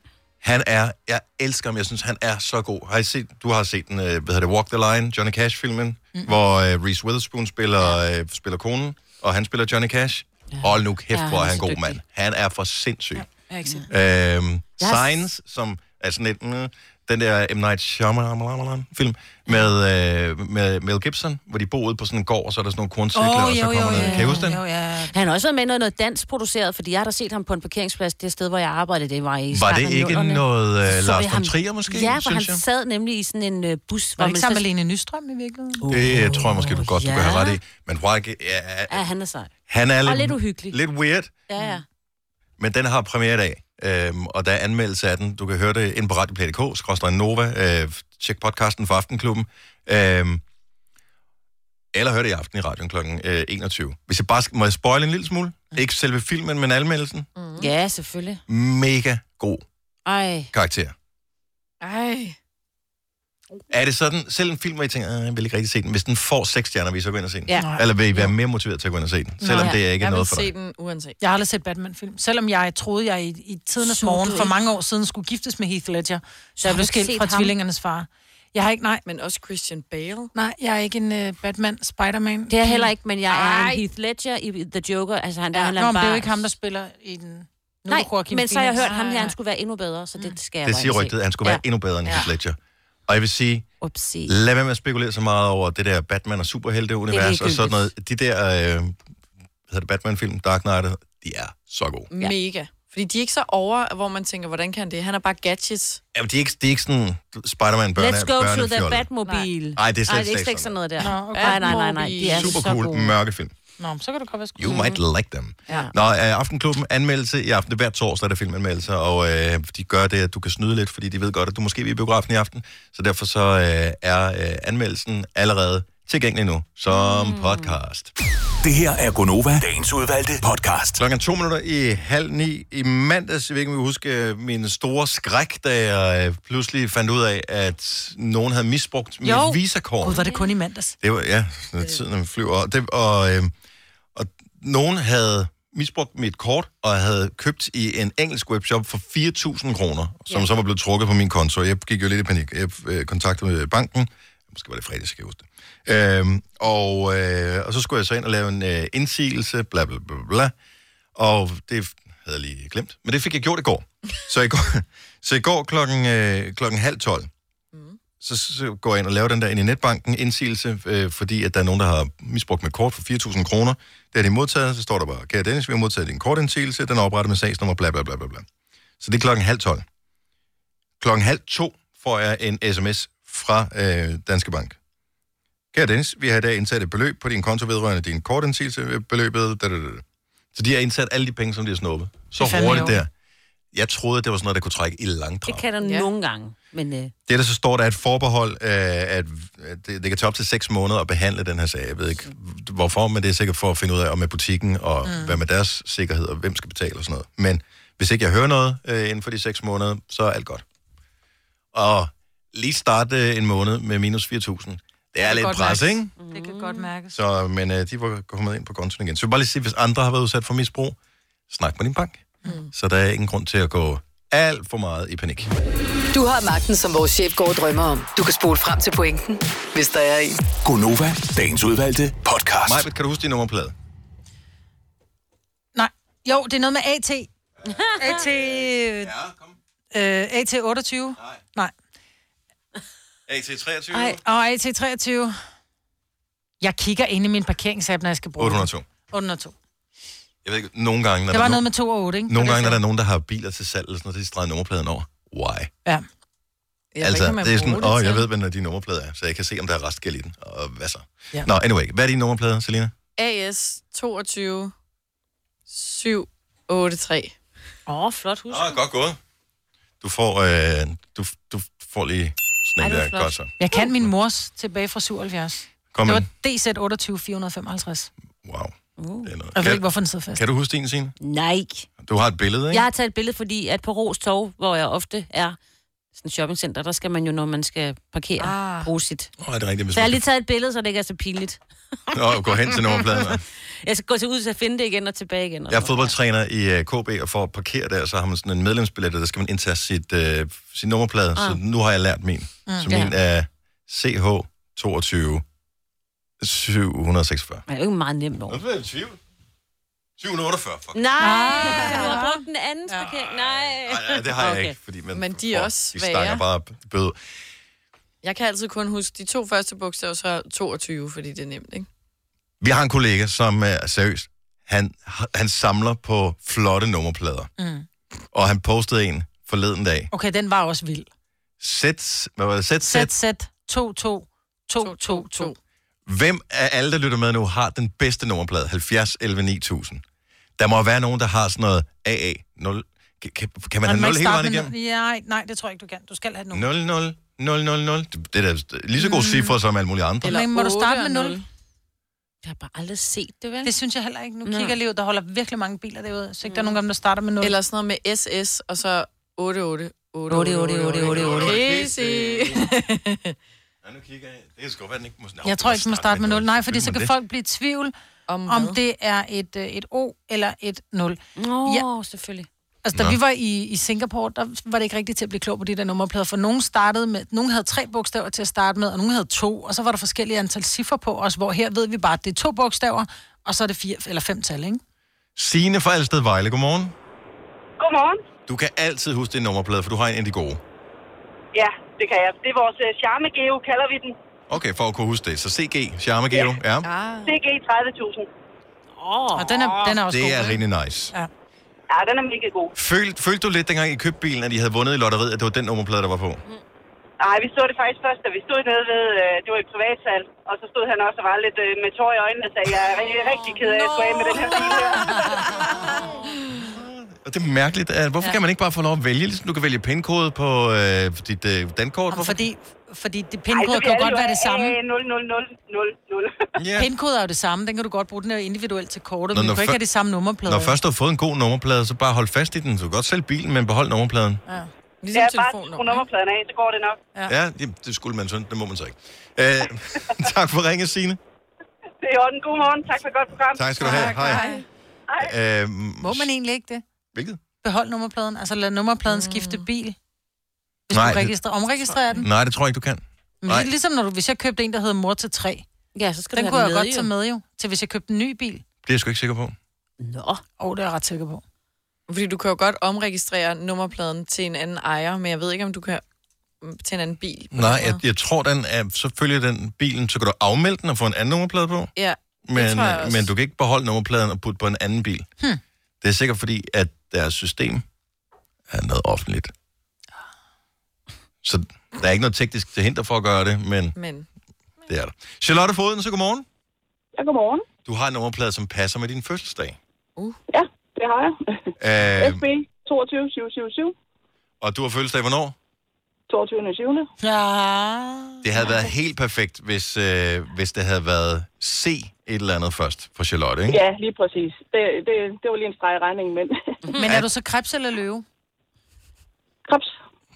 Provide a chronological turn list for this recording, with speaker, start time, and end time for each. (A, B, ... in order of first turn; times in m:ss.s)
0:00.4-0:13.3 A
0:10.6-0:12.0 B
0:13.2-0:13.9 C
0:13.9-0:24.6 A
0:14.8-0:15.2 B
0:23.1-0:25.1 C
0:24.0-0:24.6 B
0:25.1-0:34.6 B
0:29.5-0:32.6 A
0:34.2-0:35.8 C
0:35.8-0:37.6 B
0:35.9-0:39.0 A
0:38.9-0:39.5 B
0:39.7-0:41.3 A
0:40.0-0:40.8 B
0:41.5-0:41.8 C
0:41.6-0:41.8 B
0:42.6-0:50.4 A
0:51.9-0:57.3 A
0:57.4-0:57.7 D
0:57.6-0:58.4 B
0:58.5-0:59.6 A
1:00.1-1:00.5 B
1:00.5-1:00.9 A
1:01.8-1:02.4 D
1:03.7-1:10.5 A
1:07.5-1:08.3 B
1:07.6-1:07.8 C
1:09.4-1:09.7 C
1:09.6-1:11.2 D
1:11.2-1:19.0 C
1:13.8-1:14.5 B
1:16.6-1:17.5 B
1:19.0-1:20.3 D
1:20.4-1:23.8 C
1:22.5-1:26.5 B
1:25.8-1:29.3 C
1:27.9-1:31.6 B
1:28.9-1:29.3 D
1:30.6-1:33.7 A
1:33.8-1:34.3 B
1:34.3-1:39.0 A
1:37.1-1:37.9 B
1:39.7-1:42.1 A
1:42.1-1:46.0 D
1:46.1-1:49.1 A
1:48.0-1:53.1 B
1:49.2-1:49.5 D
1:49.8-1:50.7 A
1:51.0-1:51.9 C
1:51.2-1:52.6 D
1:52.3-1:53.5 A
1:53.8-1:54.8 C
1:54.6-2:08.1 A
1:54.6-1:55.0 B
2:06.9-2:07.8 B
2:08.6-2:11.0 E
2:11.0-2:20.2 A
2:19.2-2:21.0 C
2:21.0-2:23.5 A
2:24.2-2:40.5 A
2:41.2-2:47.3 A
2:47.7-2:48.0 D
2:48.2-2:58.5 A
2:59.0-2:59.8 A
3:01.0-3:04.8 A
3:05.7-3:10.0 A
3:10.5-3:13.1 A
3:12.4-3:13.0 C
3:13.7-3:15.7 A
3:15.5-3:17.1 B
3:15.8-3:16.1 D
3:17.3-3:30.6 A
3:25.0-3:25.4 C
3:31.7-3:36.1 A
3:35.2-3:37.2 C
3:36.2-3:36.9 B
3:37.1-3:41.0 A
3:41.5-3:45.5 A
3:42.4-3:42.7 D
3:46.1-3:50.4 F
3:50.6-3:52.8 E
3:52.6-3:53.8 A
3:55.8-3:57.3 C
3:57.7-3:59.6 A
3:57.7-3:58.2 B
3:58.0-3:59.1 C
3:59.9-4:01.7 C
4:03.3-4:04.2 A
4:03.9-4:05.4 C
4:06.6-4:09.6 C
4:08.4-4:08.9 A
4:10.4-4:11.7 A
4:11.3-4:12.8 C
4:12.3-4:15.7 A
4:16.9-4:18.3 D
4:17.0-4:22.9 A
4:23.2-4:24.7 D
4:25.7-4:27.4 D
4:27.9-4:28.8 B
4:28.5-4:29.2 A
4:30.0-4:33.5 A
4:32.8-4:33.4 B
4:33.6-4:38.1 C
4:35.9-4:36.3 A
4:38.4-4:39.8 A
4:39.0-4:39.3 B
4:39.6-4:40.4 C
4:40.3-4:41.2 A
4:41.2-4:41.9 B
4:42.0-4:42.8 A
4:42.7-4:45.6 B
4:46.1-4:49.3 B
4:48.5-4:48.8 D
4:49.4-4:50.2 A
4:49.9-4:51.6 B
4:52.1-4:53.4 A
4:52.1-4:53.3 B
4:53.8-4:56.1 B
4:55.7-5:05.4 A
5:02.7-5:02.9 C
5:02.9-5:03.1 B
5:06.4-5:07.6 A
5:07.7-5:08.6 B
5:08.5-5:09.2 A
5:10.2-5:11.0 A
5:11.0-5:14.8 B
5:11.2-5:13.1 C
5:13.3-5:17.2 A
5:15.1-5:16.4 D
5:18.2-5:21.9 D
5:22.6-5:27.5 A
5:27.6-5:27.9 C
5:28.3-5:30.1 A
5:30.1-5:31.1 C
5:31.6-5:33.1 A
5:32.8-5:35.5 C
5:34.8-5:35.6 D
5:36.1-5:40.0 A
5:40.6-5:44.7 A
5:43.8-5:46.7 C
5:46.5-5:50.3 A
5:50.2-5:51.4 C
5:50.2-5:51.4 D
5:52.4-5:53.7 B
5:53.6-5:57.6 C
5:54.4-5:54.8 B
5:56.4-5:56.8 B
5:57.4-6:03.4 D
6:00.3-6:01.7 B
6:01.0-6:02.7 A
6:03.8-6:07.1 A
6:05.4-6:07.9 C
6:08.3-6:08.8 D
6:08.5-6:11.9 C
6:11.4-6:12.5 B
6:12.8-6:24.8 C
6:25.4-6:27.0 A
6:27.8-6:28.2 G
6:28.5-6:30.6 A
6:31.6-6:34.1 G
6:34.5-6:36.9 A
6:36.3-6:36.6 G
6:36.8-6:37.4 D
6:37.3-6:38.3 G
6:39.0-6:39.9 B
6:39.3-6:41.3 C
6:40.1-6:41.1 A
6:41.9-6:42.7 G
6:42.8-6:46.4 A
6:47.2-6:55.2 G
6:53.0-6:56.2 B
6:56.7-7:02.4 A
7:02.1-7:04.8 C
7:03.5-7:06.3 G
7:06.6-7:06.9 A
7:06.8-7:10.8 C
7:09.3-7:09.8 A
7:10.5-7:14.4 A
7:15.0-7:16.1 D
7:15.1-7:17.0 G
7:17.3-7:21.2 A
7:22.0-7:23.9 G
7:23.5-7:24.5 A
7:23.8-7:24.6 D
7:23.8-7:24.6 C
7:25.2-7:26.3 A
7:26.0-7:26.8 C
7:27.1-7:27.4 A
7:27.6-7:30.0 C
7:29.1-7:29.7 D
7:30.9-7:32.3 C
7:30.9-7:31.4 A
7:32.2-7:33.7 A
7:33.4-7:35.7 C
7:35.9-7:37.1 B
7:36.3-7:38.6 C
7:38.8-7:39.6 A
7:40.0-7:40.4 B
7:40.6-7:41.4 C
7:42.1-7:46.0 D
7:46.6-7:48.0 D
7:47.5-7:51.9 A
7:52.0-7:53.3 D
7:52.5-7:55.3 A
7:56.0-7:57.8 A
7:58.7-7:59.5 A
8:01.4-8:04.0 A
8:04.0-8:04.3 D
8:04.9-8:06.5 A
8:07.2-8:07.6 H
8:07.9-8:09.8 A
8:10.5-8:14.0 H
8:11.8-8:12.5 A
8:14.6-8:15.6 A
8:16.3-8:17.1 H
8:17.2-8:18.4 C
8:18.4-8:23.8 A
8:23.7-8:26.6 H
8:27.0-8:28.2 C